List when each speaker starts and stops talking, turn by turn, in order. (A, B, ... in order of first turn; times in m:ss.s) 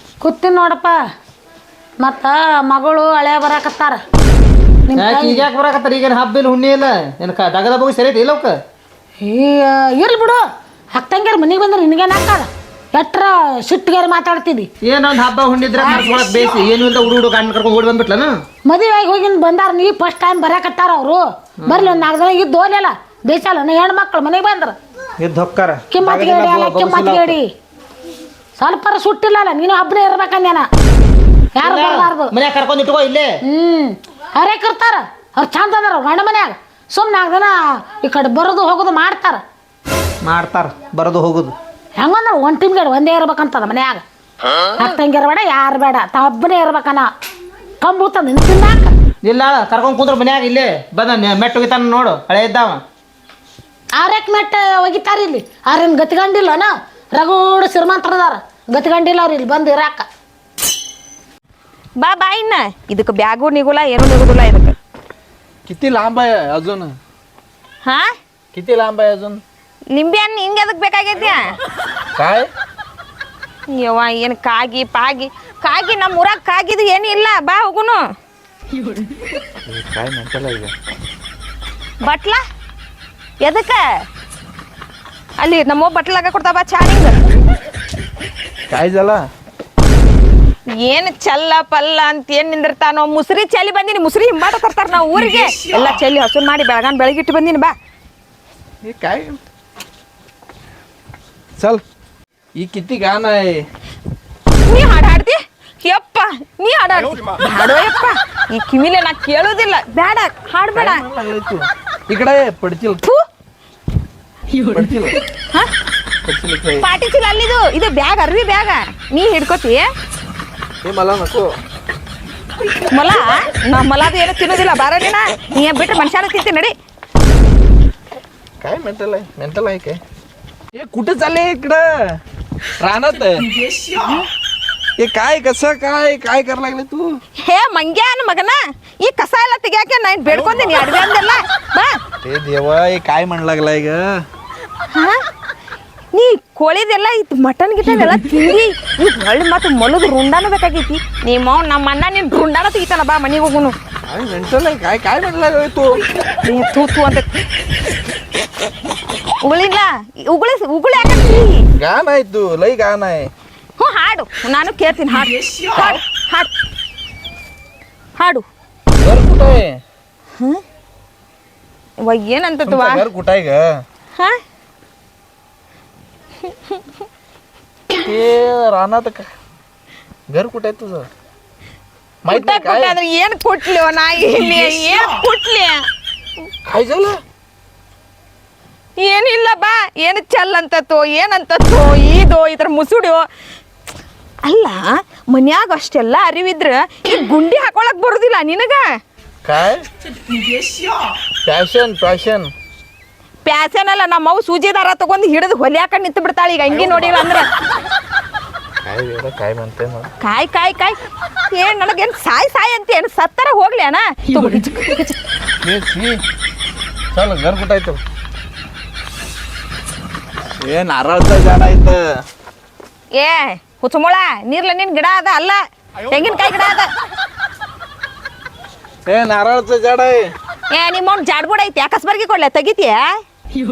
0:00.2-0:01.0 A
0:02.0-0:04.0 A
0:04.9-0:05.5 A
0:05.0-0:08.6 B
0:09.2-0:10.4 A
0:11.0-0:14.7 A
0:14.8-0:18.3 B
0:15.8-0:16.6 A
0:18.7-0:24.8 A
0:21.6-0:22.0 B
0:25.2-0:27.4 B
0:25.9-0:27.5 A
0:28.6-0:30.7 A
0:31.6-0:32.3 A
0:31.6-0:33.3 B
0:33.4-0:39.4 A
0:40.2-0:41.5 B
0:42.0-0:44.0 A
0:44.8-0:47.1 A
0:47.8-0:48.9 A
0:49.2-0:52.8 B
0:54.0-1:00.1 A
1:02.0-1:04.8 C
1:05.7-1:07.0 D
1:07.8-1:08.1 C
1:08.5-1:09.4 D
1:09.9-1:11.4 C
1:12.2-1:12.5 D
1:13.7-1:18.0 C
1:19.7-1:20.7 D
1:22.0-1:22.4 C
1:23.4-1:23.8 C
1:25.4-1:27.2 C
1:28.7-1:29.2 D
1:30.8-1:37.8 C
1:38.8-1:39.4 D
1:41.6-1:41.8 D
1:42.6-1:43.7 D
1:44.7-1:51.0 C
1:50.7-1:53.0 D
1:54.7-1:55.2 D
1:56.2-1:56.9 D
1:56.8-1:59.9 C
2:00.8-2:01.5 D
2:02.9-2:06.7 C
2:08.6-2:10.0 D
2:10.8-2:12.2 D
2:12.8-2:13.5 D
2:13.8-2:14.3 C
2:15.0-2:17.2 D
2:17.4-2:22.0 C
2:22.2-2:24.2 D
2:24.9-2:25.2 C
2:26.1-2:33.8 C
2:34.1-2:36.0 D
2:36.4-2:37.3 C
2:39.4-2:41.6 C
2:41.8-2:43.3 D
2:43.8-2:46.5 C
2:48.2-2:48.4 C
2:49.0-2:49.8 D
2:52.0-2:53.1 C
2:52.6-2:53.8 D
2:56.5-2:56.8 C
2:58.0-2:59.3 D
3:00.3-3:01.1 D
3:02.2-3:03.0 D
3:02.3-3:05.9 C
3:06.7-3:07.2 D
3:09.0-3:13.3 C
3:14.4-3:19.0 C
3:19.4-3:19.9 D
3:21.4-3:22.5 D
3:23.4-3:27.5 C
3:28.8-3:30.1 D
3:30.2-3:31.0 C
3:31.5-3:35.2 C
3:35.6-3:36.2 D
3:37.1-3:38.0 D
3:40.6-3:42.2 D
3:43.2-3:46.9 C
3:49.1-3:50.3 D
3:50.7-3:53.2 C